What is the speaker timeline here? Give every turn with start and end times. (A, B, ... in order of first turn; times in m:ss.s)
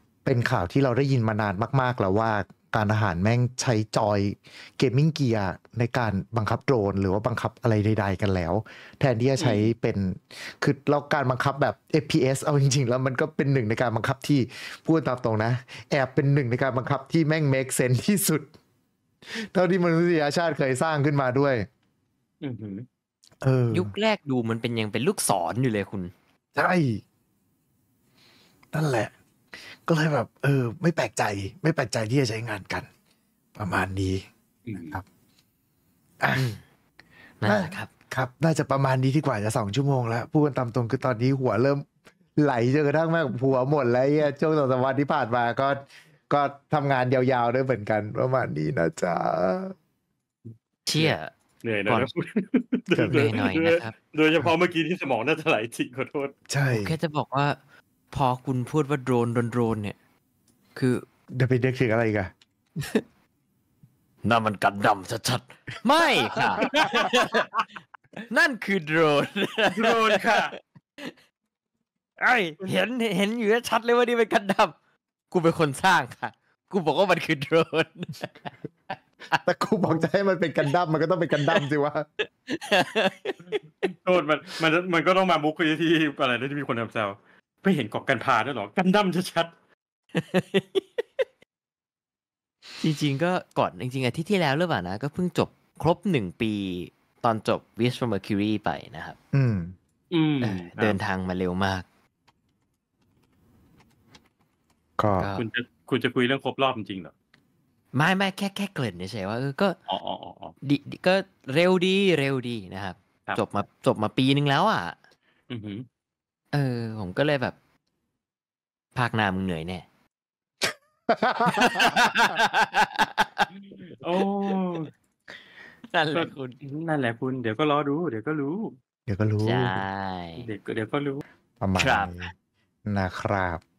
0:00.2-0:18.5 A
0:09.4-0:09.7 B
0:19.3-0:21.7 A
0:22.4-0:22.8 B
0:23.4-0:23.9 A
0:23.7-0:26.1 C
0:26.5-0:27.0 A
0:28.7-0:29.1 A
0:29.8-0:32.9 A
0:33.6-0:35.0 A
0:34.6-0:35.0 B
0:36.2-0:36.5 A
0:36.4-0:36.6 C
0:37.4-0:37.9 C
0:37.4-0:41.8 A
0:42.4-0:49.7 A
0:50.9-0:51.3 C
0:50.9-0:56.3 B
0:52.9-0:53.3 A
0:53.1-0:53.9 C
0:56.5-0:57.0 A
0:56.7-0:57.6 C
0:58.1-1:00.0 C
1:00.7-1:01.0 C
1:01.3-1:02.3 A
1:04.2-1:07.5 C
1:06.6-1:07.4 B
1:08.3-1:11.1 C
1:09.7-1:10.5 B
1:12.2-1:14.7 C
1:15.3-1:18.5 C
1:19.3-1:20.0 C
1:19.3-1:22.0 A
1:22.2-1:23.5 C
1:23.5-1:29.5 B
1:30.1-1:31.2 C
1:32.8-1:39.2 C
1:39.3-1:39.7 A
1:40.1-1:41.0 B
1:40.4-1:41.8 C
1:45.0-1:45.3 A
1:45.2-1:45.4 C
1:45.3-1:47.1 B
1:47.9-1:49.8 C
1:49.9-1:50.5 B
1:50.6-1:55.0 C
1:55.5-1:55.9 B
1:56.5-1:57.6 C
1:58.9-1:59.8 C
2:01.1-2:02.0 A
2:01.5-2:03.4 C
2:03.5-2:04.9 B
2:05.8-2:06.6 C
2:06.1-2:08.8 B
2:09.1-2:09.8 A
2:09.4-2:10.5 C
2:10.4-2:11.2 B
2:11.6-2:12.3 A
2:11.8-2:12.3 C
2:12.8-2:13.6 A